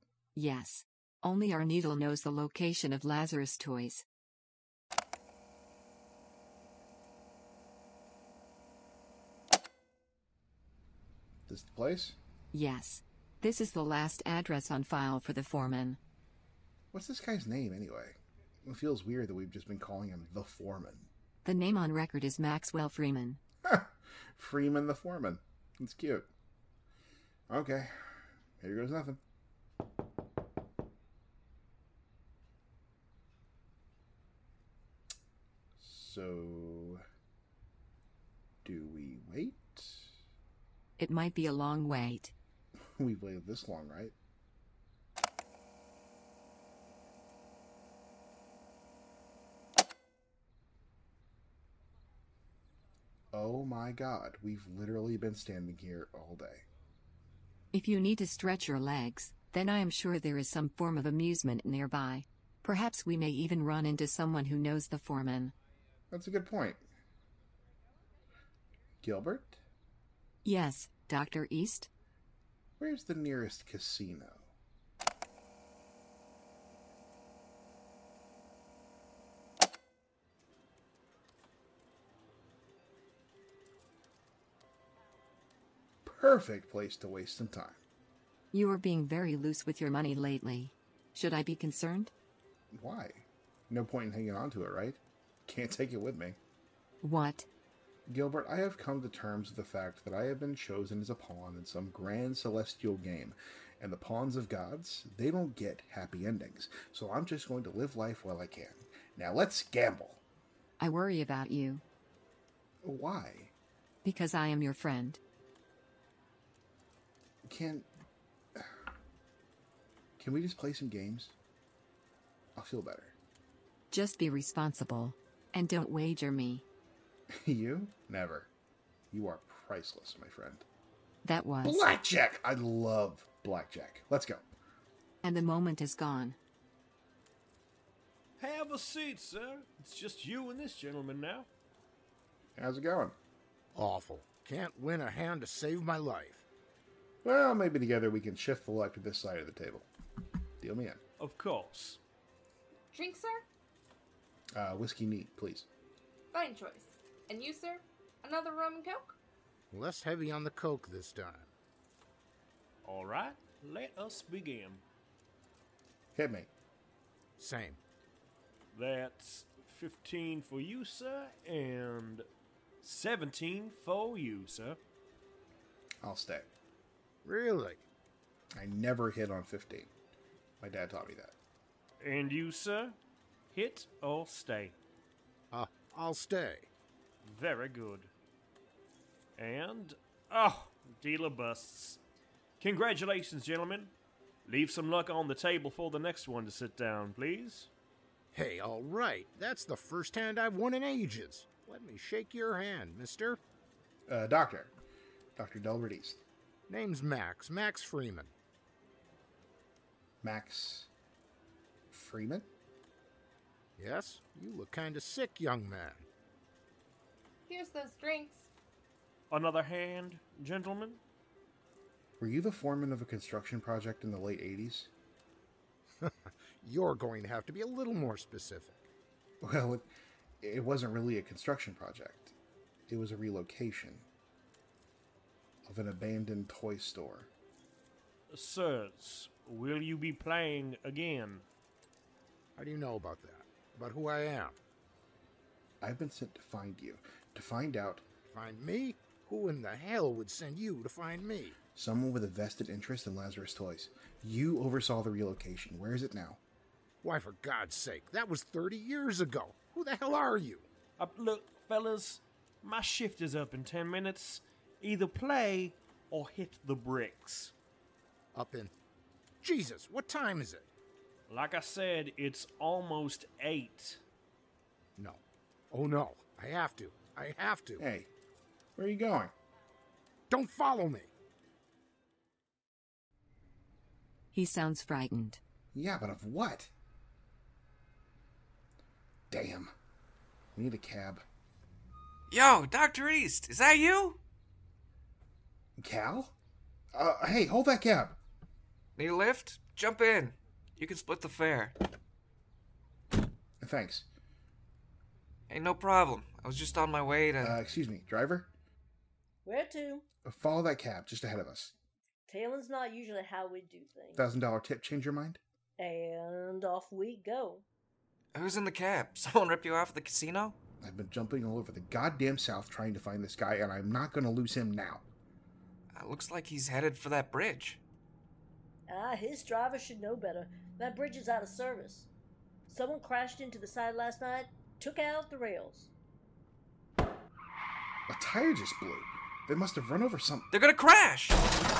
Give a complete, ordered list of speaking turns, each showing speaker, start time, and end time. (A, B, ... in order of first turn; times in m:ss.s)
0:00.3-0:04.0 A
0:11.5-0:12.2 B
0:12.5-0:16.0 A
0:16.9-0:21.1 B
0:21.4-0:23.4 A
0:23.6-0:26.3 B
0:27.5-0:27.9 B
0:28.6-0:29.2 B
0:35.8-0:37.0 B
0:38.6-0:40.1 B
0:41.0-0:42.3 A
0:43.0-0:44.1 B
0:53.3-0:56.6 B
0:57.7-1:05.5 A
1:06.1-1:06.8 B
1:09.0-1:09.6 B
1:10.4-1:11.9 A
1:12.8-1:14.5 B
1:26.0-1:27.8 B
1:28.5-1:32.1 A
1:32.7-1:36.4 B
1:37.0-1:37.5 A
1:38.1-1:50.2 B
1:50.8-1:51.8 A
1:52.8-1:53.5 B
1:54.0-1:55.2 A
1:57.4-1:57.9 B
2:00.2-2:01.3 B
2:02.6-2:03.1 B
2:03.9-2:06.6 A
2:07.4-2:08.5 B
2:09.1-2:10.6 B
2:11.2-2:11.8 A
2:11.6-2:14.4 B
2:15.2-2:16.4 A
2:18.4-2:21.5 C
2:22.6-2:23.2 B
2:23.7-2:26.4 D
2:27.2-2:29.9 B
2:30.6-2:31.0 B
2:31.2-2:32.0 C
2:32.9-2:33.4 E
2:34.5-2:35.7 B
2:36.3-2:39.2 E
2:39.7-2:41.5 D
2:42.8-2:44.8 C
2:46.1-2:46.5 B
2:47.4-2:47.8 D
2:48.7-2:52.2 C
2:52.8-2:54.8 C
2:56.0-2:56.5 B
2:57.2-2:57.8 D
2:58.6-2:59.9 B
3:00.6-3:01.3 B
3:02.0-3:03.0 C
3:03.5-3:04.8 C
3:05.5-3:06.7 D
3:07.2-3:08.1 C
3:09.4-3:12.0 C
3:12.6-3:13.9 C
3:14.4-3:17.7 C
3:18.3-3:23.4 D
3:24.1-3:24.7 B
3:25.4-3:26.2 B
3:26.7-3:28.3 D
3:30.2-3:30.9 B
3:31.9-3:32.5 B
3:33.8-3:36.1 D
3:37.5-3:38.5 E
3:39.3-3:41.0 C
3:42.2-3:44.9 B
3:46.0-3:48.9 D
3:49.4-3:49.9 B
3:50.4-3:52.3 B
3:52.9-3:54.1 B
3:55.6-3:57.3 B
3:58.3-4:01.4 C
4:02.6-4:04.6 D
4:05.8-4:08.0 B
4:08.3-4:11.6 D
4:11.7-4:16.4 B
4:17.0-4:20.7 D
4:21.0-4:27.5 C
4:28.3-4:28.7 D
4:29.4-4:30.7 D
4:31.3-4:34.0 C
4:35.7-4:37.8 D
4:37.8-4:38.1 B
4:38.8-4:39.3 B
4:40.3-4:41.1 D
4:44.3-4:45.4 A
4:45.7-4:46.7 B
4:49.3-4:49.7 B
4:50.5-4:51.2 B
4:52.3-4:54.2 F
4:55.8-4:56.3 B
4:56.9-4:58.2 B
4:59.0-5:01.7 F
5:03.6-5:04.1 B
5:05.5-5:07.6 F
5:07.4-5:08.5 B
5:09.4-5:10.0 G
5:10.2-5:11.7 B
5:12.3-5:14.3 G
5:14.1-5:15.4 B
5:15.8-5:17.6 G
5:18.3-5:20.6 F
5:20.8-5:25.0 B
5:25.9-5:27.8 F
5:28.9-5:32.1 G
5:32.7-5:35.9 G
5:38.1-5:40.5 B
5:40.5-5:41.4 F